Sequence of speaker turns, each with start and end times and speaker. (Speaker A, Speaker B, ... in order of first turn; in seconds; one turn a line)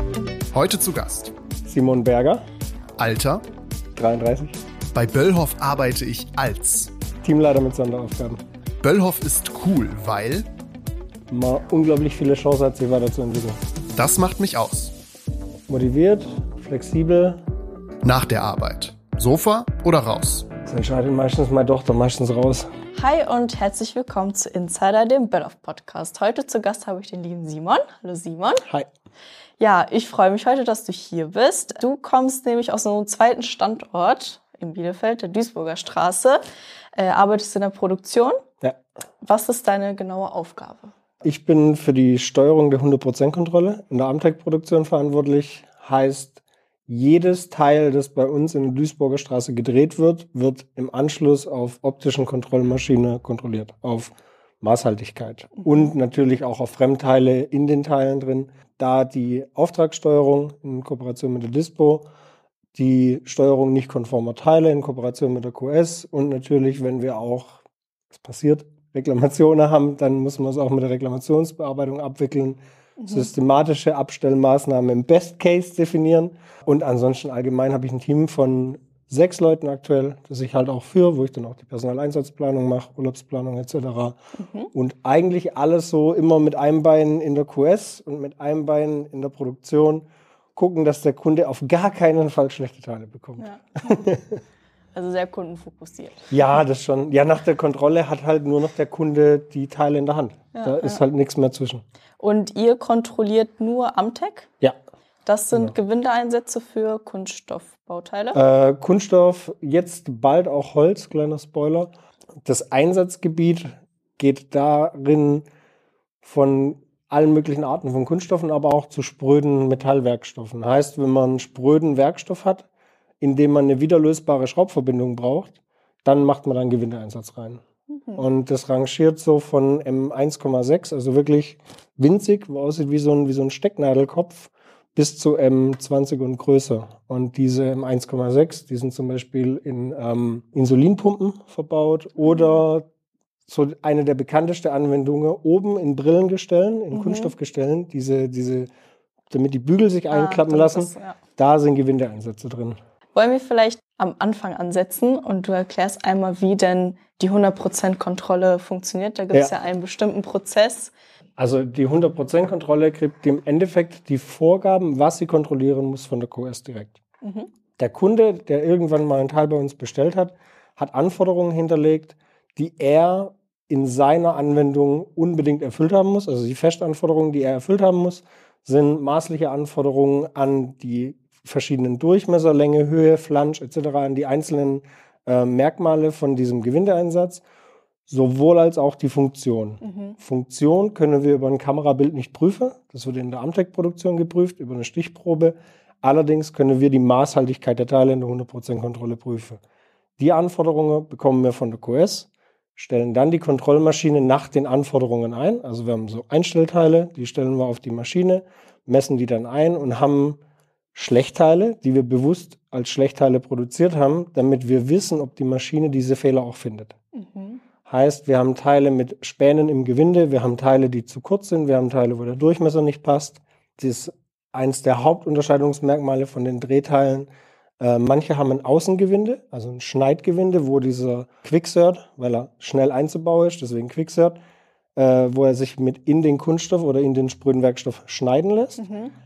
Speaker A: 0.5-1.3
Speaker B: 1.6-2.4
Speaker A: 3.0-3.5
Speaker B: 4.0-4.6
Speaker A: 4.9-6.9
Speaker B: 7.2-8.4
Speaker A: 8.8-10.5
Speaker B: 11.3-13.6
Speaker A: 13.9-14.9
Speaker B: 15.7-17.4
Speaker A: 18.0-20.5
Speaker B: 20.6-22.7
Speaker C: 22.9-28.7
Speaker C: 29.6-36.4
Speaker C: 37.0-38.4
Speaker C: 39.2-41.0
Speaker B: 41.2-62.0
Speaker B: 62.7-84.2
Speaker C: 73.0-73.3
Speaker C: 84.4-84.7
Speaker B: 84.7-94.4
Speaker C: 93.4-94.1
Speaker C: 94.9-96.3
Speaker B: 96.3-101.8
Speaker C: 100.5-101.0
Speaker C: 102.2-104.5
Speaker C: 105.2-108.4
Speaker B: 108.3-111.9
Speaker B: 112.5-115.5
Speaker B: 116.2-122.7
Speaker B: 123.2-127.6
Speaker C: 127.9-128.3
Speaker B: 128.2-142.8
Speaker C: 142.2-142.6
Speaker B: 143.5-148.7
Speaker C: 146.9-147.3
Speaker B: 149.3-152.8
Speaker C: 150.1-151.2
Speaker C: 153.1-160.9
Speaker B: 161.4-167.0
Speaker C: 167.2-167.5
Speaker B: 167.8-187.4
Speaker B: 188.1-199.6
Speaker C: 189.8-190.2
Speaker B: 200.2-210.4
Speaker B: 210.9-216.9
Speaker C: 217.2-217.6
Speaker B: 217.8-227.3
Speaker B: 227.8-234.4
Speaker B: 235.0-238.9
Speaker C: 238.8-239.1